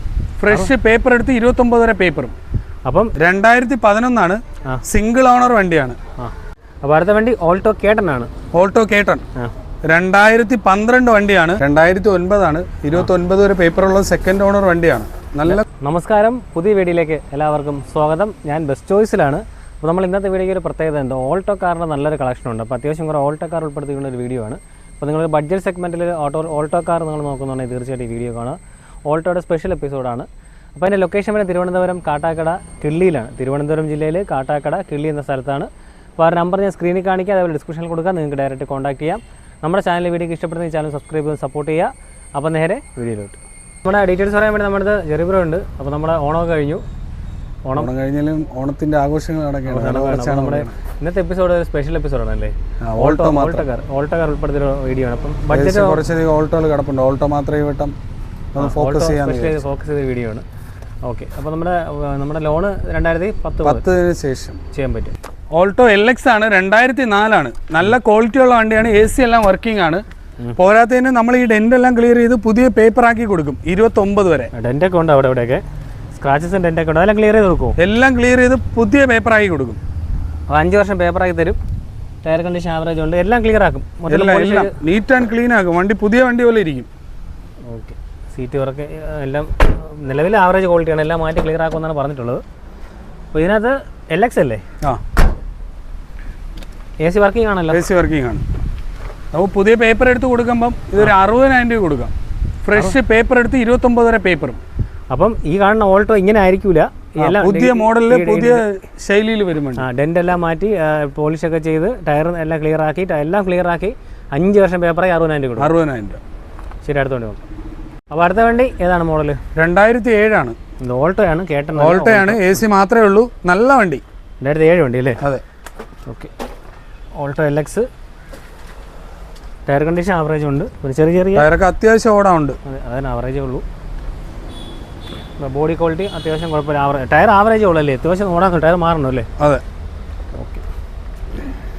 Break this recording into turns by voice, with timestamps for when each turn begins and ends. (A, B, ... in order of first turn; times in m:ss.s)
0:00.4-0:02.3 A
0:02.8-0:03.1 B
0:03.2-0:06.0 A
0:06.2-0:08.3 B
0:08.5-0:09.2 A
0:09.9-0:15.6 A
0:15.5-0:46.8 B
0:47.6-0:47.9 B
0:47.7-0:50.8 A
0:49.6-0:56.0 B
0:52.8-0:53.6 A
0:55.5-0:57.9 A
0:58.5-0:59.6 A
0:58.6-1:00.4 B
1:01.0-1:03.8 B
1:03.6-1:04.6 A
1:04.7-1:05.1 B
1:05.5-1:10.0 A
1:10.5-1:14.5 A
1:14.5-1:15.6 B
1:16.2-1:17.8 B
1:17.8-1:19.8 A
1:20.5-1:21.6 B
1:22.2-1:24.7 B
1:24.1-1:26.9 A
1:27.7-1:32.4 B
1:33.3-1:34.6 B
1:37.0-1:37.8 B
1:37.7-1:38.4 A
1:39.3-1:42.1 A
1:42.6-1:44.6 A
1:45.1-1:48.6 B
1:47.2-1:49.8 A
1:49.8-1:55.7 B
1:55.6-1:56.2 A
1:56.8-1:57.4 B
1:58.1-1:59.4 B
1:59.6-2:00.6 A
2:00.8-2:02.6 B
2:01.7-2:04.0 A
2:04.4-2:05.2 B
2:07.2-2:07.9 B
2:09.7-2:11.5 B
2:11.3-2:12.6 A
2:12.6-2:13.6 B
2:15.4-2:19.3 B
2:20.3-2:20.6 B